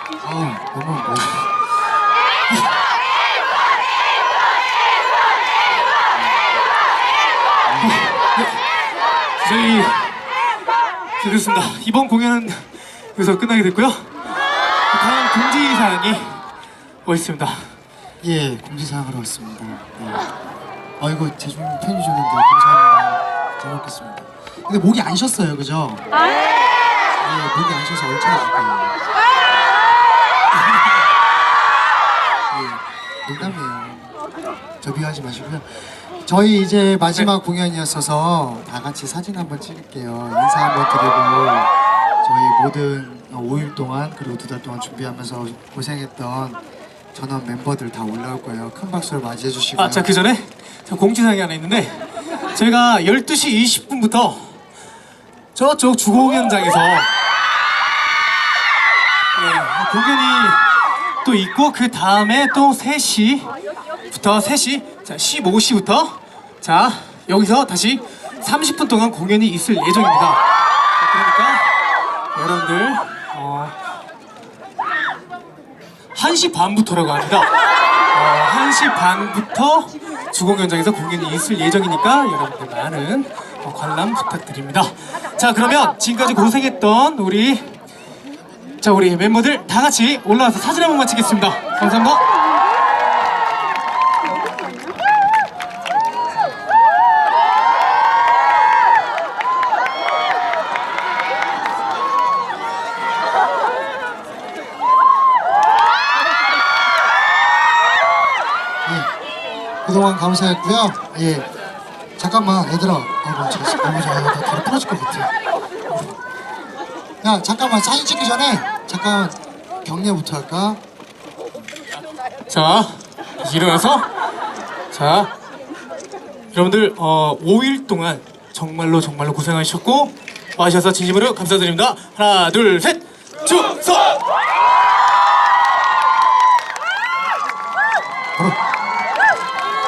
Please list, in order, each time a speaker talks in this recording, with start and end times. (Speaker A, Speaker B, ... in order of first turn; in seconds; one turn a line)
Speaker A: 0.2-1.7
Speaker A: 6.2-6.4
Speaker A: 7.7-8.1
Speaker B: 7.8-8.6
Speaker B: 9.4-10.2
Speaker B: 11.2-14.1
Speaker B: 14.9-16.4
Speaker B: 17.1-17.7
Speaker A: 18.2-20.3
Speaker A: 21.0-26.2
Speaker A: 27.2-29.0
Speaker A: 32.5-34.2
Speaker A: 34.8-46.6
Speaker A: 47.1-50.2
Speaker B: 49.8-52.0
Speaker B: 52.5-54.6
Speaker B: 55.5-57.1
Speaker B: 59.4-60.7
Speaker B: 61.2-63.5
Speaker B: 64.1-70.4
Speaker B: 71.0-71.7
Speaker B: 72.3-73.8
Speaker B: 76.2-77.5
Speaker B: 78.1-87.8
Speaker B: 88.8-92.2
Speaker A: 108.8-109.1
Speaker A: 109.8-111.5
Speaker A: 112.2-115.3
Speaker A: 117.2-120.8
Speaker B: 122.5-124.1
Speaker B: 124.9-125.3
Speaker B: 126.5-134.2